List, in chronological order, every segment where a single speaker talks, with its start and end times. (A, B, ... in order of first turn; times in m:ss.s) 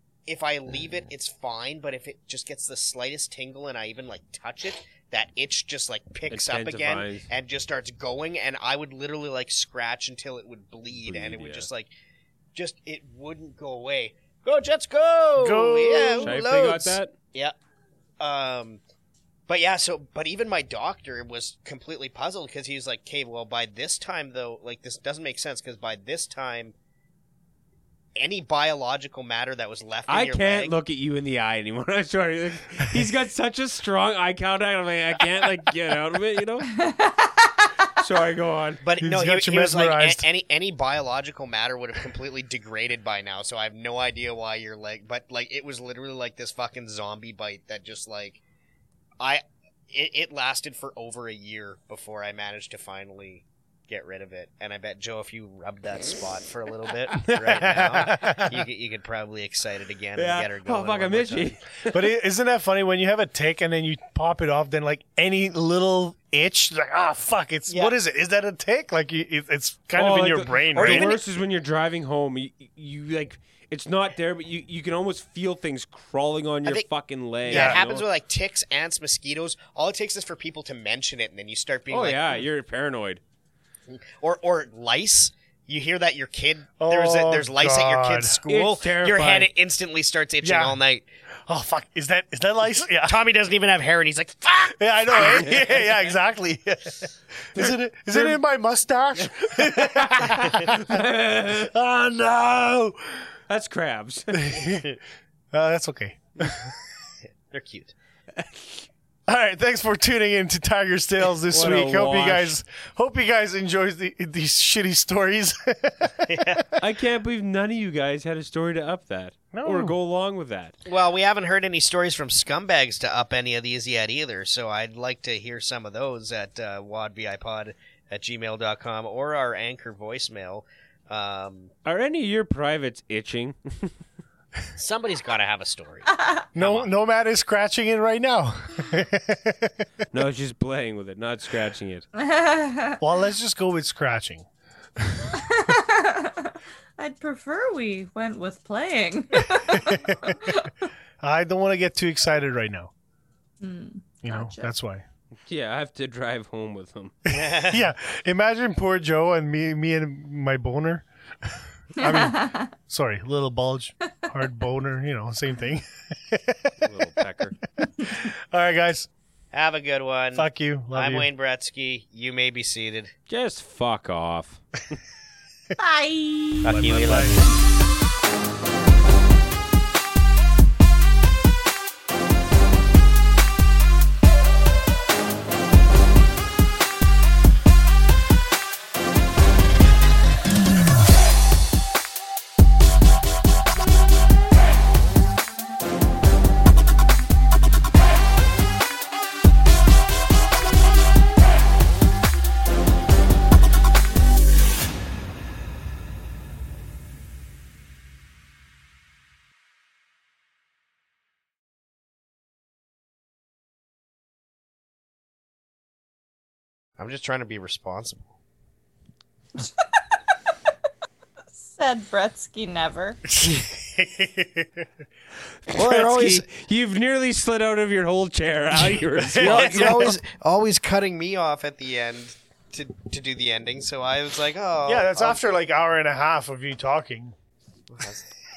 0:00.3-0:11.9 A
0:06.3-0:07.3 B
0:11.0-0:11.7 B
0:12.5-0:17.5 A
0:15.4-0:16.4 C
0:16.2-0:17.1 B
0:18.2-0:18.8 A
0:19.5-0:26.7 A
0:28.2-0:30.8 A
0:30.1-0:36.8 B
0:36.8-0:37.3 D
0:38.0-0:38.8 B
0:38.8-0:48.4 A
0:39.0-0:40.2 C
0:49.2-1:01.6 A
0:57.2-0:58.6 C
1:00.1-1:02.0 B
1:01.9-1:11.2 C
1:07.7-1:07.9 A
1:10.0-1:18.1 B
1:10.8-1:11.2 A
1:17.4-1:22.4 A
1:17.5-1:17.8 C
1:21.9-1:23.2 B
1:23.9-1:31.0 A
1:26.8-1:28.4 C
1:28.4-1:29.5 B
1:30.4-1:30.8 C
1:31.5-1:33.2 C
1:33.1-1:36.1 A
1:34.8-1:43.1 C
1:37.5-1:38.4 B
1:39.2-1:41.7 B
1:43.5-1:44.6 B
1:44.3-1:44.9 C
1:45.5-1:46.7 C
1:47.3-1:47.9 A
1:48.4-1:48.8 B
1:49.3-1:56.6 C
1:51.5-1:52.6 B
1:56.2-1:56.7 A
1:56.8-2:00.8 B
1:59.5-2:00.0 C
2:00.8-2:11.7 A
2:11.8-2:13.9 B
2:14.8-2:16.9 A
2:16.5-2:19.8 C
2:20.1-2:22.0 B
2:22.2-2:23.0 D
2:23.0-2:24.5 C
2:25.0-2:25.3 C
2:25.5-2:30.6 D
2:29.7-2:30.5 C
2:31.2-2:32.9 C
2:33.6-2:34.7 D
2:34.2-2:35.0 C
2:35.5-2:37.1 B
2:37.3-2:41.0 C
2:37.3-2:37.8 A
2:42.0-2:46.7 C
2:42.0-2:42.4 D
2:46.8-2:47.6 B
2:47.8-2:49.1 C
2:49.5-2:53.1 A
2:50.3-2:51.3 C
2:53.3-2:55.0 B
2:55.8-2:56.8 D
2:56.6-2:57.5 A
2:56.6-2:57.4 C
3:37.0-3:38.3 A
3:41.5-3:43.2 D
3:43.4-3:44.6 C
3:45.7-3:50.1 B
3:45.7-3:46.4 A
3:49.0-3:50.2 C
3:49.4-3:55.4 A
3:54.8-3:57.3 C
3:57.9-3:58.2 A